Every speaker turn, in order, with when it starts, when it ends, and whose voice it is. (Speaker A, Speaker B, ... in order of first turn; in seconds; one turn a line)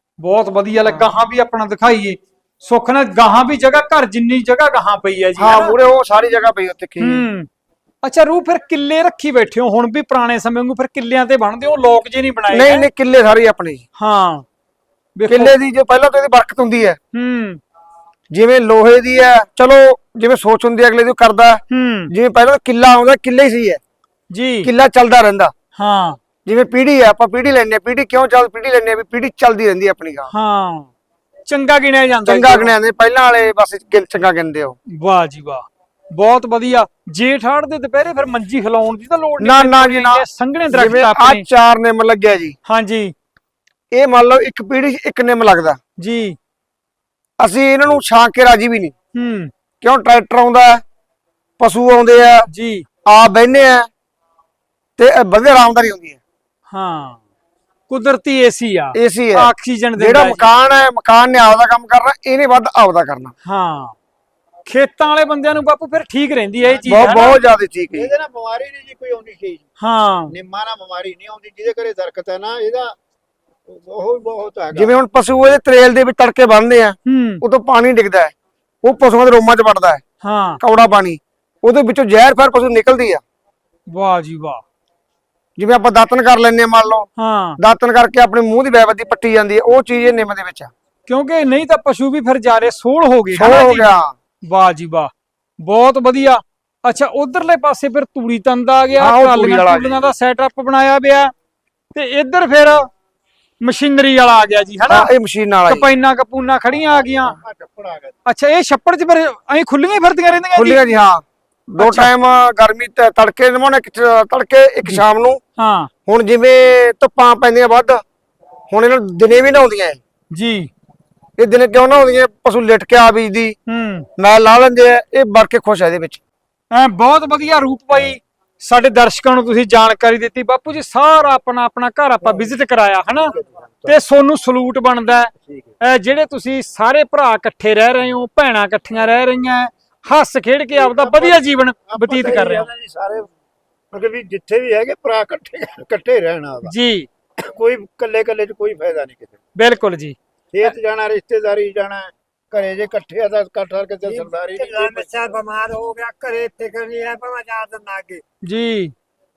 Speaker A: 0.2-5.7
Speaker B: 0.8-1.1
Speaker B: 5.4-7.3
Speaker A: 7.0-7.5
Speaker A: 8.0-12.9
Speaker B: 12.5-13.8
Speaker A: 14.0-14.5
Speaker A: 15.2-15.5
Speaker B: 15.3-17.0
Speaker A: 17.1-17.6
Speaker B: 18.3-23.8
Speaker A: 21.7-22.1
Speaker A: 24.3-24.7
Speaker B: 24.6-25.5
Speaker A: 25.8-26.2
Speaker B: 26.5-30.3
Speaker A: 30.3-30.9
Speaker A: 31.5-32.8
Speaker B: 32.2-34.8
Speaker A: 34.9-41.4
Speaker B: 39.4-42.6
Speaker A: 42.7-43.1
Speaker B: 43.9-45.8
Speaker A: 46.0-46.4
Speaker B: 47.4-48.9
Speaker A: 49.1-49.5
Speaker B: 49.8-50.8
Speaker B: 51.6-52.5
Speaker A: 52.5-52.9
Speaker B: 53.1-53.9
Speaker B: 55.0-56.2
Speaker A: 56.7-57.2
Speaker A: 57.9-60.5
Speaker B: 59.0-63.3
Speaker A: 63.5-64.0
Speaker A: 64.7-67.4
Speaker C: 66.7-67.4
Speaker B: 66.9-68.1
Speaker C: 67.9-69.7
Speaker A: 69.8-70.3
Speaker C: 70.3-73.0
Speaker C: 73.7-74.9
Speaker B: 74.7-80.0
Speaker A: 77.0-77.4
Speaker A: 80.2-80.6
Speaker B: 80.6-83.2
Speaker A: 83.9-84.6
Speaker B: 85.6-87.1
Speaker A: 87.2-87.6
Speaker B: 87.6-90.7
Speaker A: 91.1-93.9
Speaker B: 93.3-94.1
Speaker A: 94.5-101.3
Speaker B: 99.0-100.1
Speaker A: 101.9-102.9
Speaker A: 103.6-105.1
Speaker B: 104.9-105.9
Speaker A: 105.7-107.3
Speaker C: 106.8-108.1
Speaker A: 108.3-110.8
Speaker B: 110.5-115.4
Speaker A: 111.8-112.1
Speaker A: 115.6-115.9
Speaker B: 116.1-118.0
Speaker B: 118.7-120.0
Speaker A: 120.3-120.7
Speaker B: 121.4-123.6
Speaker A: 123.7-124.1
Speaker B: 124.2-126.2
Speaker A: 126.7-133.3
Speaker C: 133.3-134.0
Speaker A: 133.9-142.7
Speaker C: 135.4-135.7
Speaker C: 140.8-143.3
Speaker C: 143.9-146.7
Speaker A: 146.7-147.1
Speaker C: 147.4-149.4
Speaker A: 149.6-150.7
Speaker C: 150.5-155.2
Speaker D: 154.0-158.2
Speaker A: 158.4-158.9